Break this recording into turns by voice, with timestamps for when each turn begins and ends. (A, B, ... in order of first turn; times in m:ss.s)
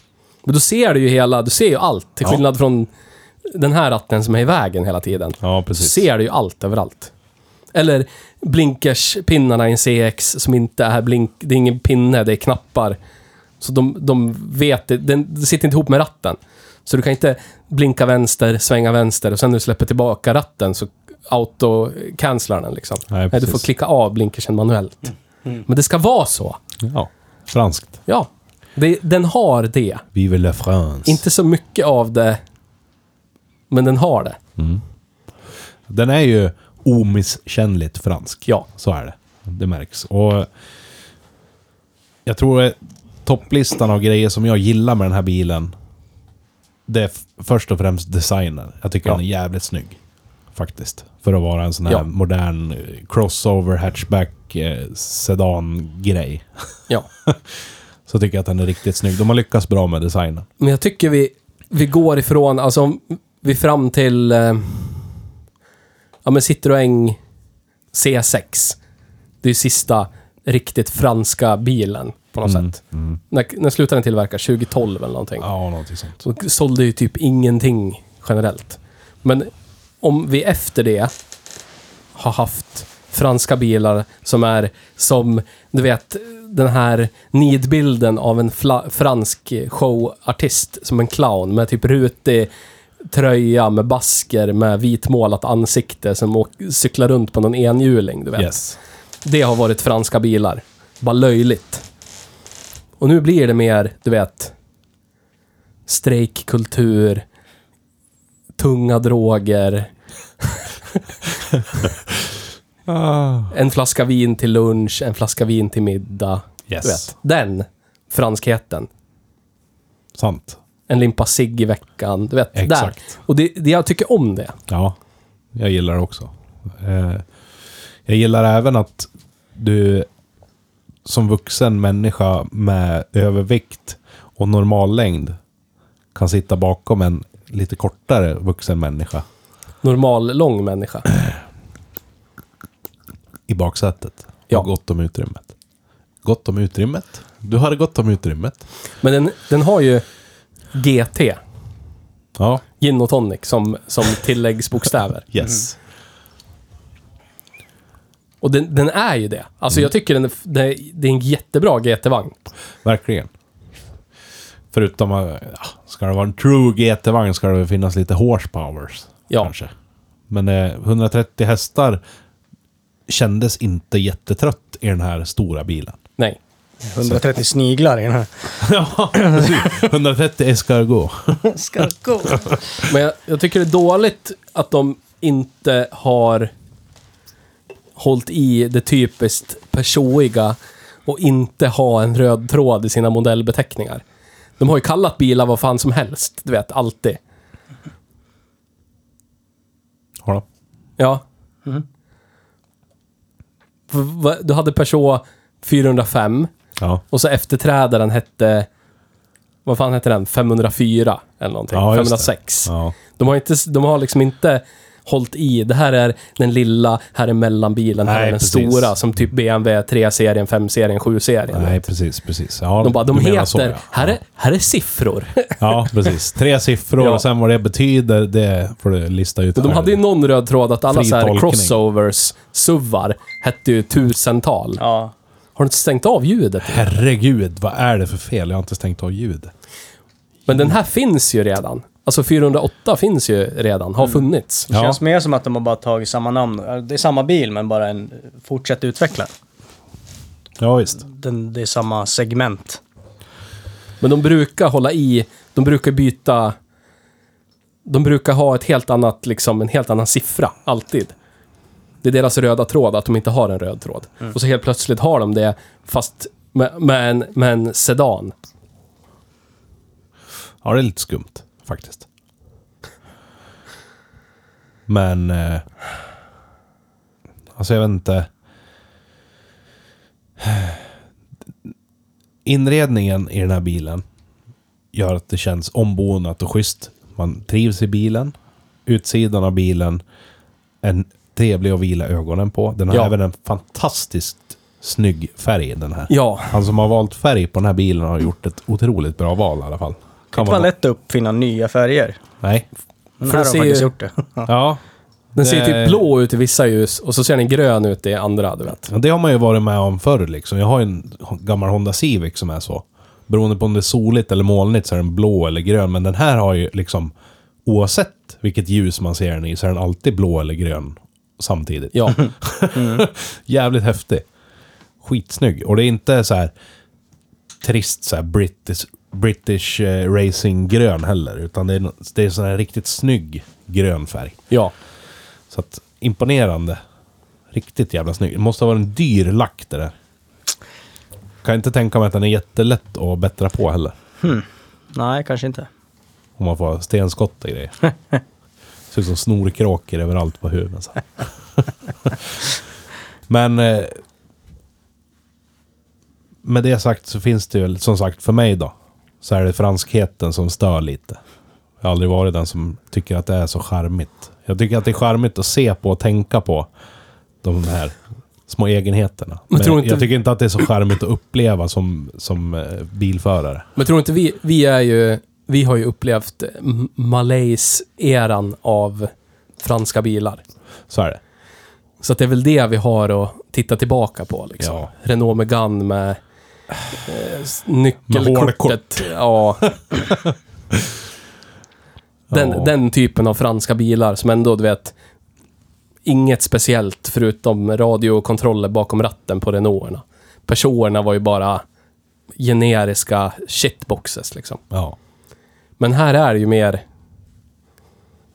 0:00.5-0:02.9 A
0:03.5-0:07.1 A
0:05.4-0:06.1 B
0:07.7-0:13.0 A
0:13.6-0:25.1 A
0:23.1-0:23.6 B
0:25.6-0:26.6 A
0:26.8-0:28.0 B
0:28.1-0:30.0 A
0:30.1-0:31.2 B
0:31.0-0:32.4 A
0:33.7-0:34.4 A
0:34.6-0:34.8 B
0:35.9-0:40.5 B
0:42.3-0:45.8 B
0:46.9-0:50.0 B
0:50.6-0:56.5 B
0:58.1-1:00.5 B
1:00.6-1:05.1 A
1:06.2-1:07.2 A
1:07.9-1:08.8 A
1:09.4-1:12.8 A
1:12.4-1:13.2 B
1:13.3-1:15.5 A
1:15.4-1:16.2 B
1:16.2-1:19.5 A
1:20.0-1:21.1 A
1:22.2-1:32.5 A
1:33.1-1:38.7 A
1:38.4-1:38.8 B
1:39.2-1:41.8 A
1:43.0-1:44.5 A
1:45.9-1:47.2 A
1:48.6-1:49.9 A
1:52.9-1:53.5 B
1:53.5-1:58.9 A
1:56.7-1:57.1 B
2:00.2-2:00.6 B
2:00.9-2:04.6 A
2:02.6-2:03.1 B
2:04.7-2:05.0 B
2:05.6-2:07.2 B
2:08.1-2:10.1 B
2:11.0-2:15.4 B
2:16.1-2:19.3 B
2:19.8-2:21.1 A
2:23.5-2:25.5 B
2:26.2-2:28.6 B
2:29.0-2:30.0 A
2:30.7-2:31.4 A
2:32.4-2:32.6 B
2:32.8-2:35.3 A
2:35.3-2:35.8 B
2:38.4-2:42.4 A
2:42.8-2:43.3 B
2:44.7-2:49.7 B
2:50.3-2:52.0 B
2:53.1-2:56.0 B
2:56.8-2:58.6 C
2:58.6-3:01.5 B
3:01.5-3:02.6 C
3:02.9-3:06.5 A
3:08.0-3:14.0 A
3:14.6-3:17.2 A
3:21.0-3:21.2 A
3:23.9-3:26.5 A
3:27.1-3:28.7 A
3:29.7-3:41.9 A
3:31.7-3:33.0 B
3:38.0-3:38.9 B
3:41.5-3:44.2 B
3:42.8-3:45.7 A
3:45.6-3:50.0 B
3:47.0-3:47.2 A
3:49.6-3:54.8 A
3:50.9-3:51.8 B
3:54.8-3:55.1 C
3:55.6-3:57.0 A
3:56.6-3:59.5 B
4:00.5-4:04.7 A
4:04.7-4:09.3 C
4:04.7-4:05.0 B
4:10.6-4:11.0 B
4:11.0-4:12.8 C
4:14.0-4:16.6 A
4:17.9-4:21.1 A
4:22.0-4:28.3 A
4:30.6-4:32.1 B
4:34.9-4:35.7 B
4:37.6-4:38.3 B
4:40.4-4:40.9 B
4:42.4-4:44.0 B
4:44.9-4:48.3 B
4:48.9-4:50.0 B
4:50.8-5:00.7 B
4:56.1-4:56.6 A
5:00.3-5:02.2 C
5:02.4-5:02.7 B
5:03.2-5:04.5 C
5:03.2-5:03.9 A
5:04.5-5:04.8 B
5:05.4-5:06.0 B
5:05.4-5:08.9 A
5:08.9-5:17.1 B
5:17.7-5:24.2 B
5:21.9-5:22.2 A
5:25.0-5:26.5 B
5:27.6-5:34.5 B
5:35.5-5:36.8 B
5:37.5-5:39.9 B
5:41.4-5:44.0 B
5:44.2-5:45.7 C
5:46.4-5:47.9 B
5:48.9-5:52.5 B
5:53.3-5:54.0 B
5:56.4-6:01.2 B
6:01.8-6:06.7 B
6:07.4-6:13.7 B
6:09.5-6:10.1 A
6:13.8-6:20.4 A
6:20.9-6:21.2 B
6:22.0-6:26.2 A
6:24.6-6:24.9 B
6:27.1-6:29.7 A
6:28.1-6:29.1 B
6:30.0-6:30.3 B
6:32.3-6:32.7 B
6:32.3-6:34.9 A
6:36.1-6:41.6 A
6:42.4-6:44.6 A
6:44.7-6:45.0 B
6:45.8-6:46.8 A